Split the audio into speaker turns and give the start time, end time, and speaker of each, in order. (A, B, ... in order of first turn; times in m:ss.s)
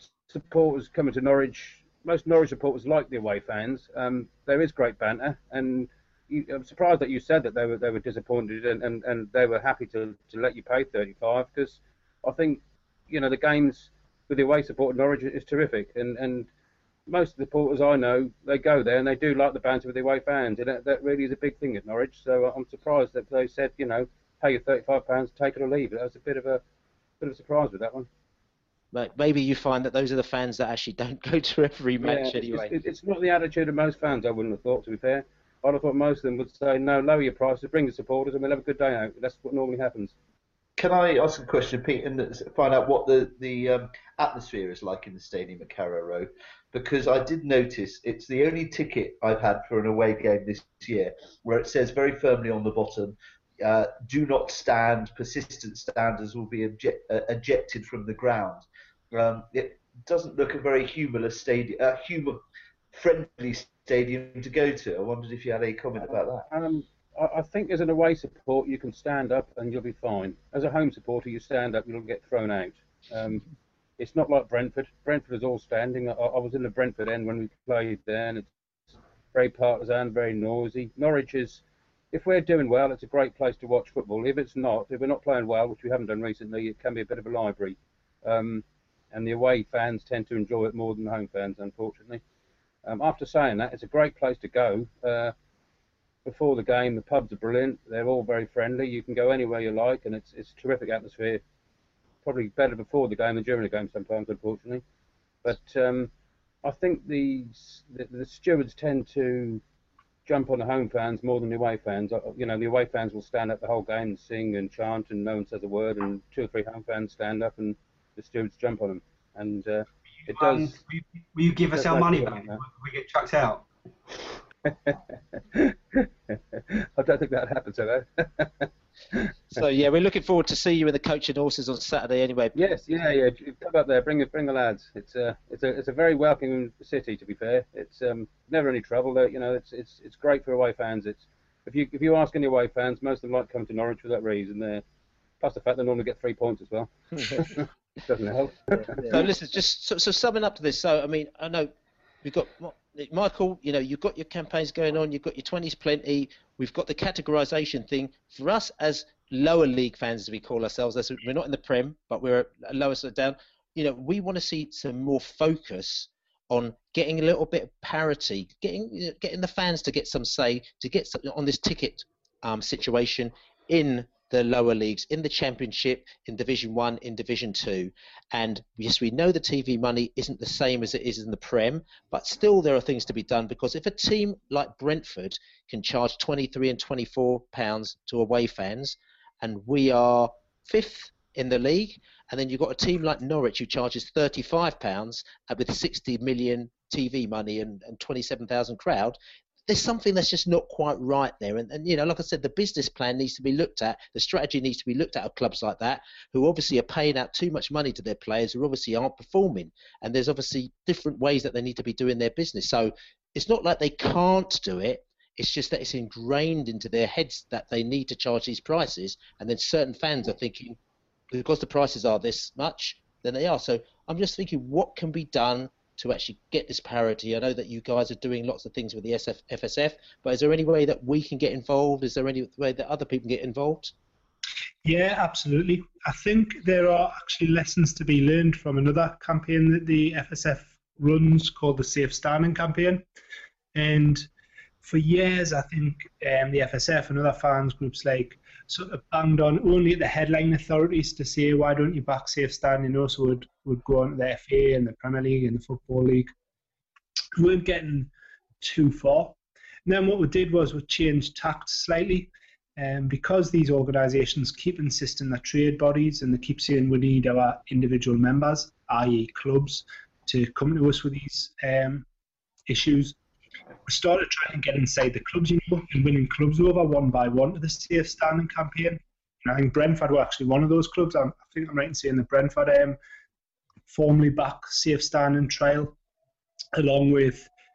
0:00.2-0:16.5 A
0:17.1-0:26.6 A
0:27.2-0:28.1 A
0:28.9-0:32.8 B
0:32.0-0:40.1 A
0:40.8-1:02.4 C
1:02.9-1:06.5 C
1:06.0-1:13.4 A
1:14.0-1:18.5 A
1:19.3-1:32.2 A
1:32.8-1:35.3 A
1:36.2-1:41.4 A
1:42.2-1:44.8 A
1:45.4-1:46.1 A
1:46.6-1:49.6 A
1:50.2-2:00.7 A
2:00.3-2:03.6 D
2:01.7-2:02.6 A
2:04.6-2:05.0 A
2:05.5-2:09.6 A
2:09.5-2:12.6 B
2:12.5-2:24.8 A
2:25.4-2:29.3 A
2:28.7-2:31.7 B
2:32.2-3:40.8 B
3:41.3-3:53.9 B
3:54.8-4:03.0 E
4:03.7-4:04.2 E
4:04.8-4:16.3 E
4:17.4-4:18.1 E
4:18.6-4:32.0 E
4:32.7-4:33.2 E
4:33.9-4:43.0 E
4:43.9-4:45.9 E
4:46.8-4:47.5 E